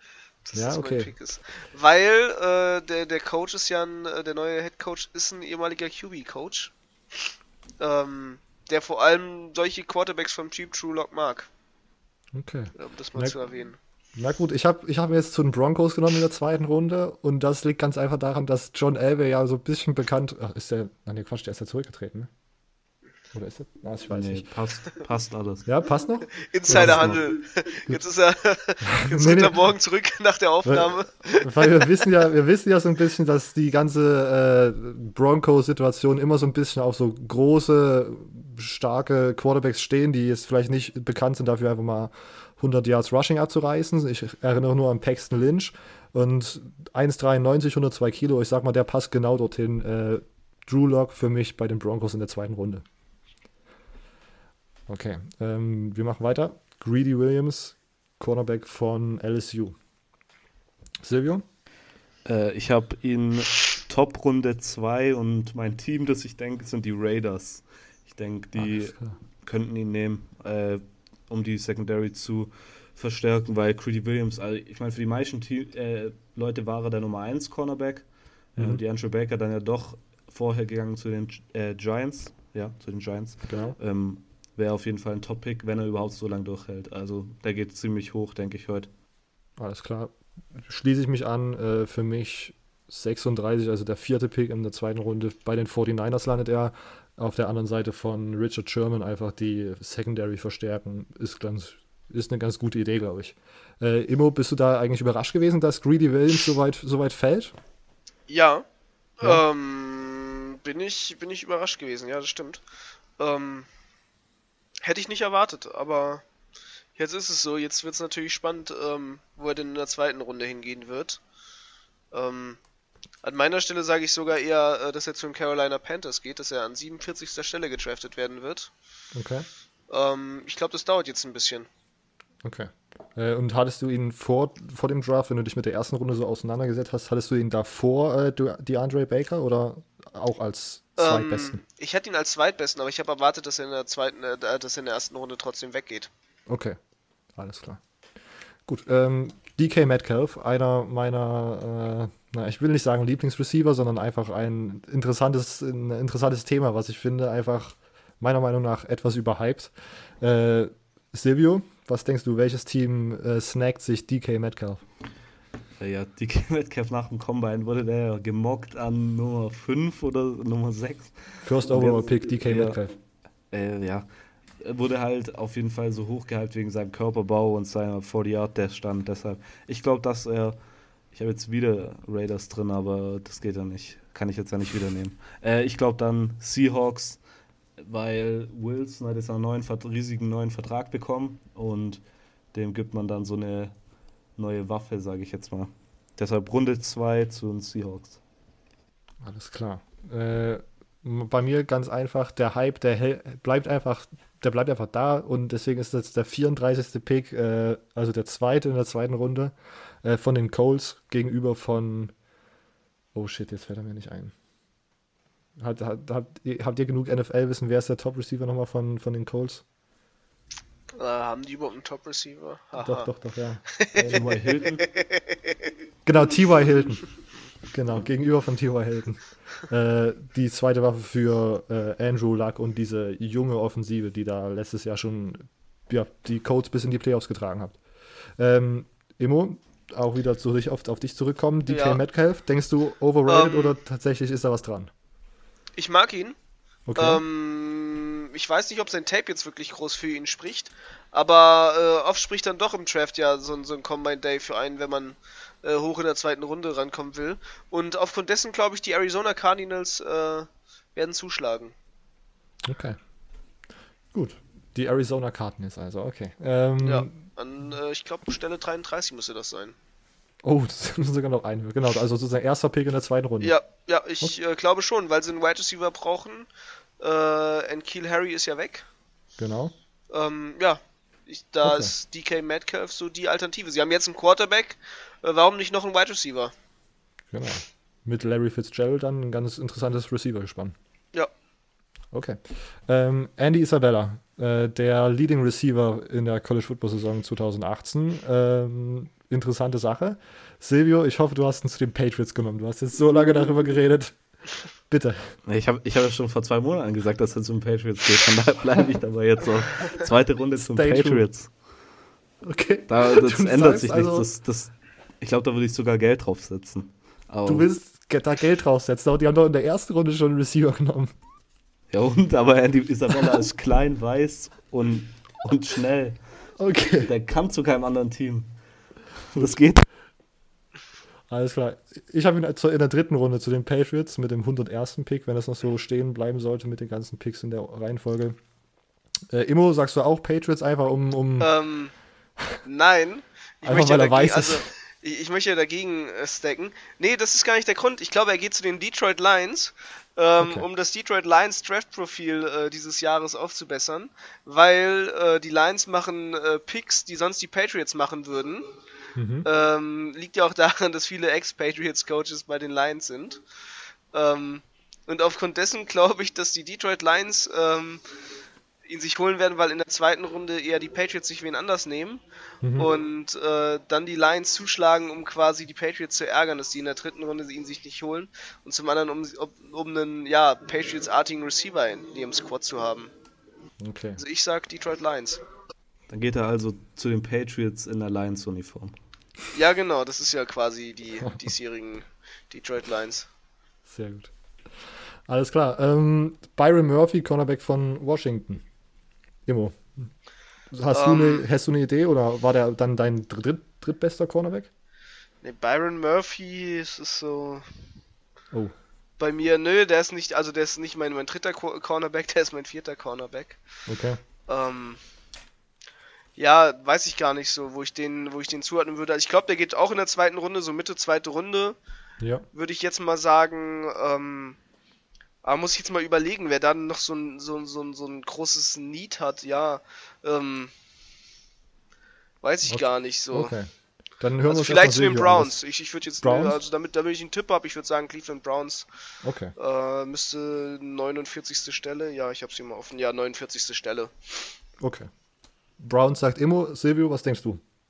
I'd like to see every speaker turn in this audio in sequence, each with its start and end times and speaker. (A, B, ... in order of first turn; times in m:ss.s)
0:00.4-0:06.7 A
0:00.5-0:01.1 B
0:07.8-0:11.5 A
0:12.3-0:13.3 B
0:12.8-0:13.8 A
0:14.2-0:22.3 B
0:23.3-0:24.5 B
0:24.1-0:25.7 C
0:25.6-0:27.2 B
0:26.4-0:32.0 A
0:26.7-0:27.2 C
0:28.8-0:29.5 B
0:30.6-0:52.8 B
0:54.9-0:59.8 B
1:01.0-1:01.4 B
1:02.2-1:28.9 C
1:08.6-1:09.2 B
1:23.5-1:23.8 B
1:29.6-1:47.5 B
1:48.3-1:48.6 A
1:49.2-1:52.6 A
1:53.2-1:53.7 A
1:54.8-1:56.2 A
1:57.0-2:01.2 A
2:02.1-2:02.6 A
2:03.2-2:08.7 A
2:09.1-2:09.4 B
2:09.9-2:11.7 A
2:12.4-2:21.6 B
2:21.0-2:26.1 A
2:26.5-2:26.8 B
2:27.4-2:27.8 B
2:28.6-2:44.8 B
2:45.8-2:52.8 C
2:51.4-2:52.9 B
2:53.5-3:00.6 C
3:01.1-3:07.2 C
3:07.8-3:12.0 C
3:12.5-3:13.7 C
3:14.4-3:18.2 C
3:19.2-3:32.1 B
3:33.1-3:34.3 B
3:35.6-3:39.6 B
3:41.0-3:43.1 A
3:42.8-3:44.5 B
3:43.7-3:45.3 A
3:44.1-3:44.8 C
3:46.0-3:47.1 B
3:47.7-3:57.8 B
3:58.4-4:04.9 B
4:01.7-4:02.0 A
4:03.3-4:03.8 A
4:05.8-4:06.4 A
4:06.9-4:07.2 B
4:07.0-4:21.7 A
4:22.6-4:23.0 B
4:24.1-4:27.2 B
4:26.8-4:29.8 A
4:30.4-4:33.5 B
4:33.4-4:36.5 A
4:37.0-4:38.8 A
4:39.4-4:39.7 B
4:40.1-4:46.5 A
4:41.6-4:41.9 B
4:47.3-4:50.8 B
4:52.1-5:04.2 B
5:04.9-5:05.3 B
5:05.4-5:11.5 C
5:10.6-5:11.2 B
5:12.4-5:14.3 B
5:12.9-5:17.7 C
5:17.4-5:21.1 B
5:21.9-5:26.2 C
5:26.6-5:27.1 B
5:27.0-5:28.5 C
5:29.3-5:29.8 C
5:31.3-5:38.4 B
5:39.3-5:41.5 B
5:41.4-5:41.9 A
5:42.6-5:58.7 A
5:43.6-5:44.6 B
5:59.2-5:59.4 B
5:59.4-6:03.4 A
6:04.1-6:08.0 A
6:08.8-6:12.2 A
6:12.6-6:12.9 B
6:12.8-6:23.1 A
6:23.8-6:24.2 B
6:24.2-6:25.4 A
6:26.1-6:28.9 C
6:29.5-6:33.3 A
6:33.9-6:38.6 B
6:39.4-6:40.0 B
6:40.7-6:44.7 B
6:40.9-6:41.4 A
6:45.4-6:47.6 A
6:49.2-6:53.6 A
6:53.9-6:54.2 B
6:54.5-6:55.0 A
6:56.4-7:01.8 A
7:02.2-7:02.4 B
7:02.5-7:04.6 A
7:05.4-7:10.7 A
7:12.4-7:13.5 A
7:12.7-7:15.5 B
7:14.5-7:18.8 A
7:16.2-7:16.6 B
7:19.2-7:19.5 B
7:19.6-7:24.4 A
7:24.8-7:25.1 B
7:25.8-7:27.6 B